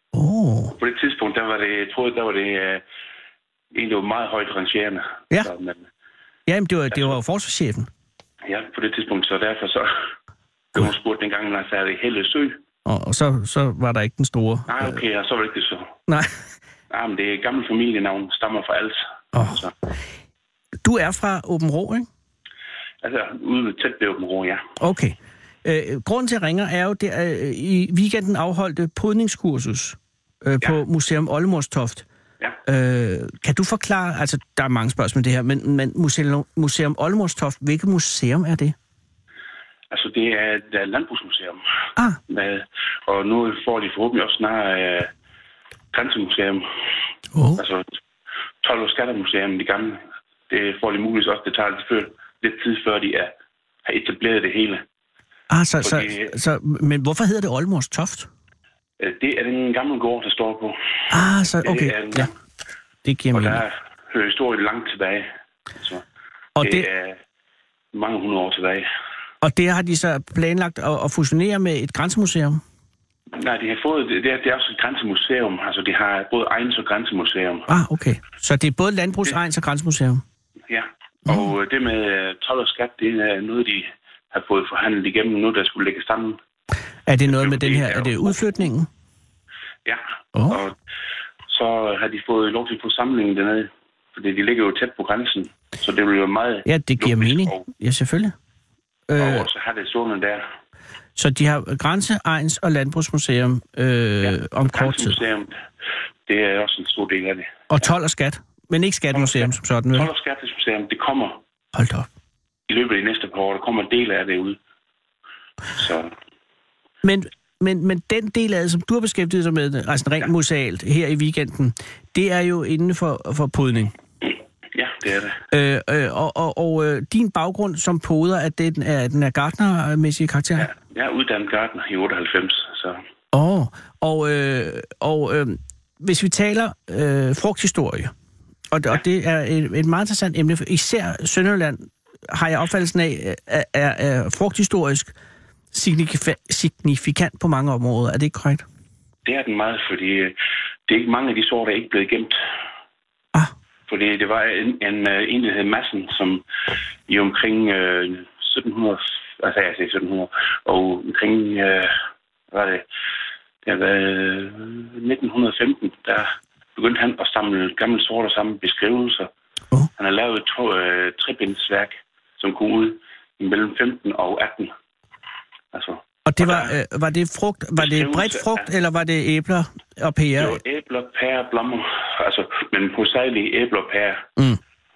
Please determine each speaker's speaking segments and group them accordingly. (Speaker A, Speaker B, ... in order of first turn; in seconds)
Speaker A: 0.1-0.7, 6.5-7.9, 12.8-15.0, 19.3-19.6, 20.8-22.1, 24.8-32.0, 32.6-38.7, 47.3-47.6, 55.5-58.3, 61.1-62.3, 63.0-63.6, 66.6-66.8, 69.4-72.6, 77.7-80.2, 87.1-88.9, 90.3-90.6, 96.7-98.3, 99.1-99.5, 101.2-105.2, 107.7-110.1, 111.7-112.1, 117.0-123.9, 125.5-130.7, 133.3-138.1, 138.7-145.1, 145.7-148.6, 176.3-180.6
Speaker B: 0.7-2.8, 3.7-5.9, 6.9-7.2, 8.4-9.9, 10.7-12.6, 14.7-15.9, 16.9-19.7, 23.0-24.6, 39.9-41.6, 42.3-45.1, 45.9-46.7, 47.6-47.9, 48.6-53.3, 53.8-54.8, 55.8-56.3, 59.0-60.8, 61.6-62.3, 63.3-66.0, 66.6-67.2, 67.9-68.9, 73.3-77.7, 80.7-86.4, 87.2-88.7, 89.8-90.7, 91.5-97.7, 99.2-100.4, 104.2-105.5, 106.3-107.9, 109.1-111.4, 112.7-114.6, 115.8-116.1, 124.7-125.4, 130.6-133.0, 149.2-150.3, 150.9-152.3, 153.9-156.4, 157.1-161.9, 162.5-162.8, 163.6-169.3, 170.0-174.7, 175.7-176.7, 177.8-178.7, 180.4-184.2